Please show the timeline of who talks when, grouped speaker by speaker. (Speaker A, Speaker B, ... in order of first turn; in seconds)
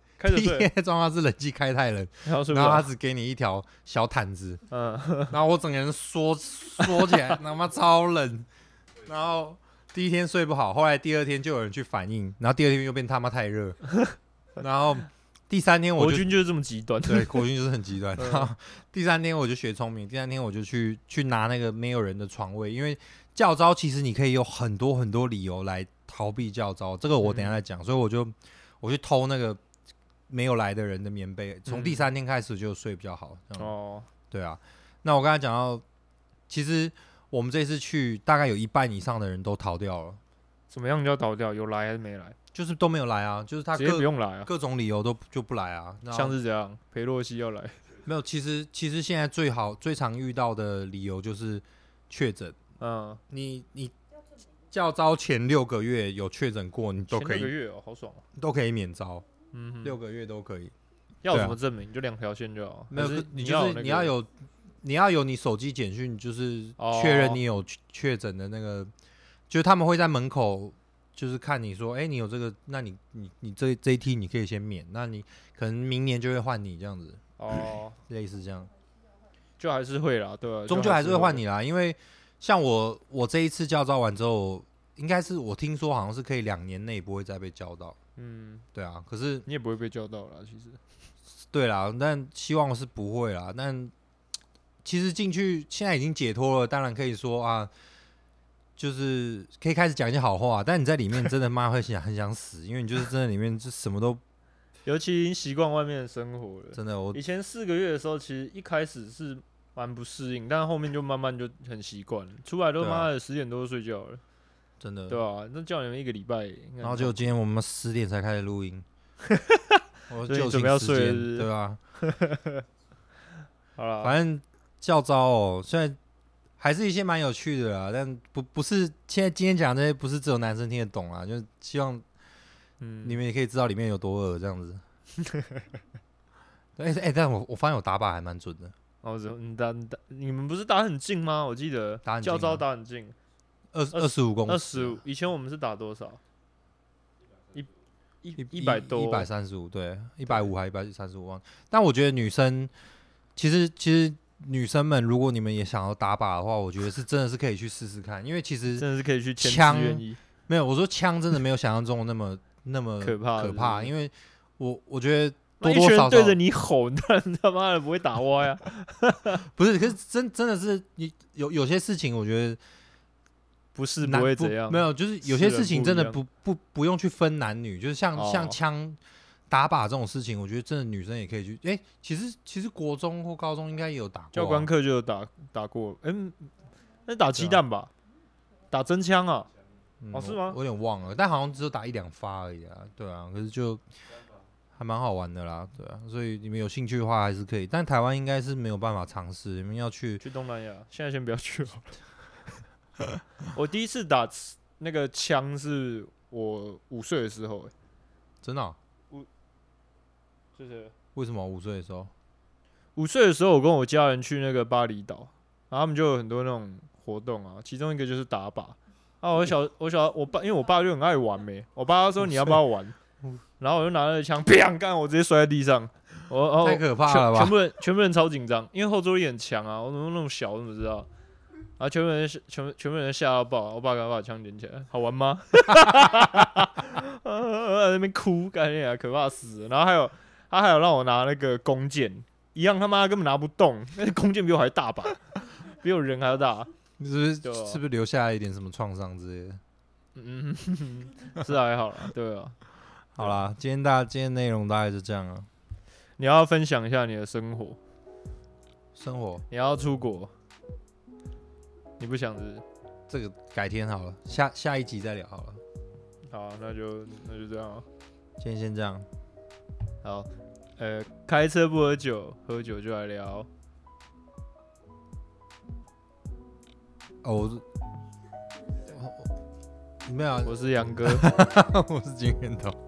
Speaker A: 0.2-0.7, 2.2-2.9, 4.7-5.3, 6.8-7.3, 16.0-17.4, 18.2-18.5, 27.2-27.6, 31.7-32.1, 33.6-34.1, 40.7-42.4, 43.7-44.5, 46.1-47.8, 52.8-53.2, 57.1-58.2, 59.5-60.0, 61.2-64.1, 66.8-67.4, 77.4-78.0, 79.6-81.4, 88.2-88.6, 89.5-90.8, 104.8-114.2, 115.1-117.3, 119.2-121.5, 122.0-122.6, 123.8-124.1, 132.8-133.2, 135.2-135.7, 139.0-143.2, 143.9-146.2, 148.2-149.3, 158.8-160.2, 163.0-163.9, 165.6-169.4, 173.7-176.2, 178.1-178.6, 184.3-186.5, 187.1-187.9, 188.7-189.5, 190.1-190.6, 200.2-201.9, 203.5-207.7, 210.6-210.9, 212.9-223.0, 223.6-231.1, 231.8-246.7, 247.4-247.8, 250.2-252.6, 256.2-257.8, 259.5-260.3, 262.0-262.6, 266.3-267.9, 270.0-273.5, 280.4-281.4
Speaker B: 0.3-4.6, 5.3-8.5, 9.0-13.8, 14.6-16.3, 17.1-29.6, 30.3-33.7, 34.3-35.8, 36.5-40.2, 42.5-46.4, 48.0-52.6, 53.3-53.9, 54.7-57.5, 58.3-59.3, 59.8-60.7, 61.3-61.6, 62.9-64.3, 64.8-68.9, 69.5-78.7, 80.7-88.0, 88.7-89.5, 91.5-93.9, 94.8-97.7, 98.8-104.2, 106.8-107.2, 112.8-113.1, 114.8-115.2, 116.8-118.8, 120.1-121.8, 124.0-126.0, 126.6-132.0, 133.0-134.8, 136.8-138.7, 142.0-142.6, 143.7-145.0, 148.3-152.7, 153.3-158.8, 159.4-166.4, 169.4-172.6, 174.0-179.0, 179.5-184.7, 187.3-187.6, 190.0-193.8, 194.8-200.2, 208.4-208.8, 211.1-212.1, 226.6-227.6, 235.7-236.4, 247.0-249.6, 253.1-255.5, 258.9-259.4, 263.1-265.6, 268.4-269.1, 277.2-277.6, 278.8-279.3, 280.0-282.8